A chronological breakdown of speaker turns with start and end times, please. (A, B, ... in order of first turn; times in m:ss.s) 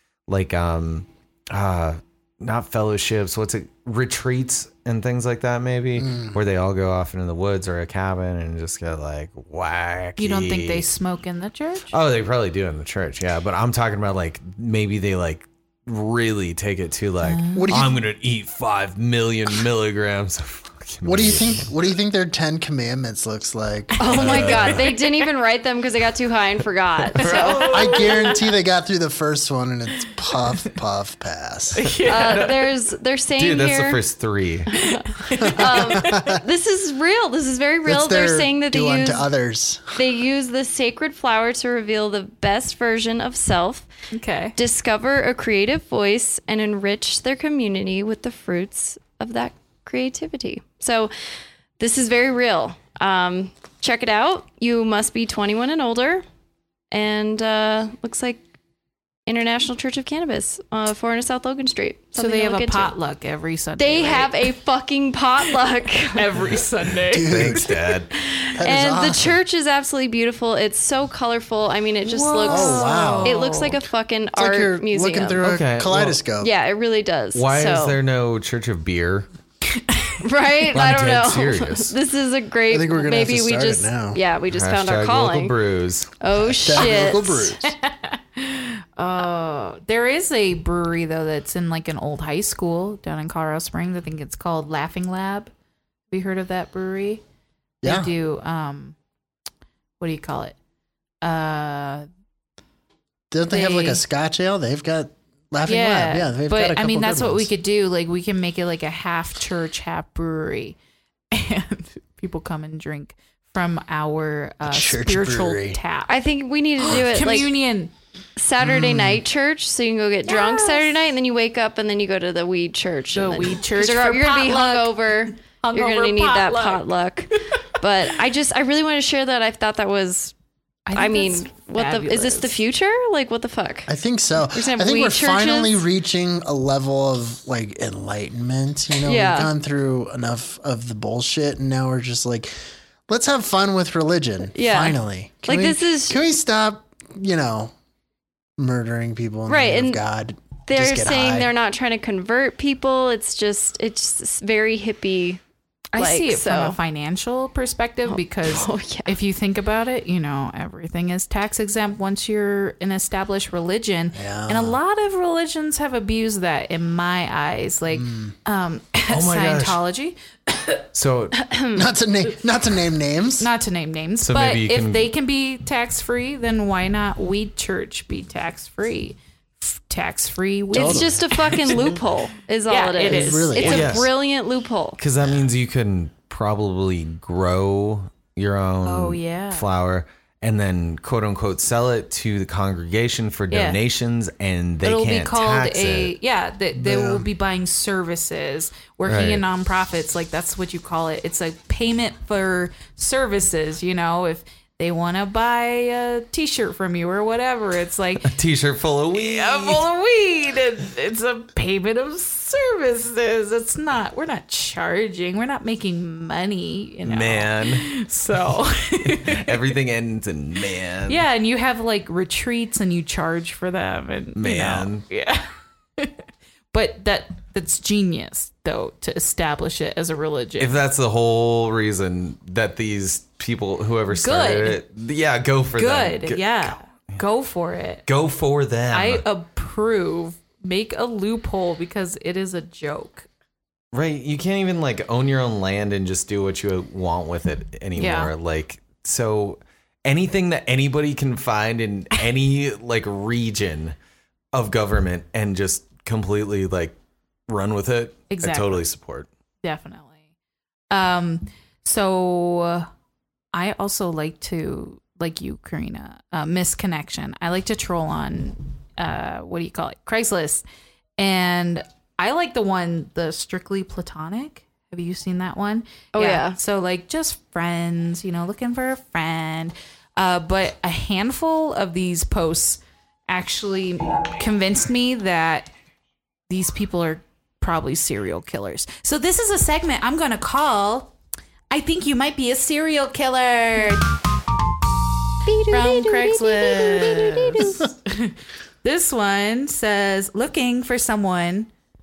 0:00.3-0:10.8 A
0:06.0-0:06.4 B
0:10.2-0:11.9 C
0:11.9-0:21.7 A
0:17.2-0:17.7 C
0:17.5-0:18.0 B
0:21.0-0:24.7 B
0:24.0-0:28.1 D
0:24.0-0:24.8 C
0:24.1-0:24.9 A
0:27.2-0:28.0 A
0:27.2-0:28.4 C
0:27.7-0:31.9 B
0:31.7-0:32.5 C
0:32.0-0:32.6 A
0:32.0-0:34.0 D
0:33.4-0:34.7 A
0:34.7-0:36.2 C
0:35.4-0:39.2 D
0:35.4-0:36.4 B
0:37.8-0:40.0 B
0:39.9-0:43.9 D
0:44.1-0:44.6 C
0:44.6-0:51.1 D
0:51.8-0:56.2 D
0:56.9-0:58.4 D
0:59.3-1:02.9 D
1:02.2-1:04.5 C
1:03.8-1:06.3 D
1:06.1-1:07.7 C
1:07.1-1:07.7 B
1:07.3-1:08.1 A
1:08.2-1:15.4 D
1:08.5-1:09.4 B
1:12.0-1:13.8 C
1:12.4-1:13.4 B
1:14.4-1:16.5 B
1:15.4-1:16.2 A
1:16.4-1:18.0 D
1:17.3-1:19.3 A
1:20.2-1:25.6 D
1:20.7-1:21.9 A
1:22.7-1:24.2 B
1:24.5-1:26.1 A
1:26.2-1:27.5 D
1:26.6-1:27.7 B
1:27.6-1:35.5 C
1:36.1-1:37.2 C
1:37.8-1:38.1 B
1:37.8-1:39.0 C
1:40.0-1:40.6 C
1:41.2-1:42.1 C
1:43.3-1:47.5 B
1:43.5-1:44.0 C
1:45.6-1:50.8 C
1:51.3-1:56.1 C
1:54.6-1:55.8 B
1:56.1-1:57.5 D
1:56.8-1:57.9 C
1:58.4-2:10.3 D
1:58.6-1:59.2 B
2:00.3-2:00.9 C
2:03.1-2:06.8 C
2:10.8-2:12.6 C
2:10.9-2:13.9 D
2:13.9-2:22.5 B
2:14.5-2:15.8 D
2:19.0-2:19.5 D
2:23.1-2:27.7 B
2:24.5-2:26.2 D
2:28.6-2:31.5 B
2:29.5-2:30.0 D
2:30.7-2:35.4 D
2:35.9-2:50.7 C
2:36.0-2:36.8 D
2:38.1-2:39.1 D
2:44.1-2:44.8 B
2:47.9-2:48.3 B
2:49.1-2:49.8 A
2:50.9-2:51.4 A
2:51.4-2:51.8 D
2:51.7-2:53.5 B
2:53.4-3:01.2 C
2:54.2-2:55.1 A
3:00.7-3:05.0 D
3:00.7-3:01.2 B
3:02.7-3:03.8 C
3:03.0-3:04.0 B
3:03.6-3:04.1 A
3:05.0-3:16.2 A
3:08.8-3:09.7 C
3:13.5-3:13.8 C
3:14.8-3:28.3 C
3:16.8-3:17.3 B
3:19.1-3:19.4 A
3:28.2-3:29.8 A
3:29.1-3:39.6 C
3:37.0-3:37.9 A
3:39.0-3:41.2 A
3:41.1-3:45.5 C
3:44.3-3:45.0 A
3:46.7-3:50.8 C
3:50.6-3:57.2 A
3:54.1-3:54.8 C
3:55.7-3:58.0 C
3:58.0-3:59.2 A
3:58.9-4:03.3 C
4:03.9-4:14.0 A
4:08.0-4:08.3 C
4:14.5-4:17.0 A
4:17.5-4:19.3 A
4:18.3-4:18.8 C
4:19.6-4:20.2 C
4:20.9-4:22.9 C
4:23.5-4:30.6 C
4:31.2-4:45.7 C
4:36.1-4:36.6 D
4:46.5-4:51.1 C
4:51.7-4:54.1 C
4:55.4-4:57.9 D
4:55.7-5:01.7 C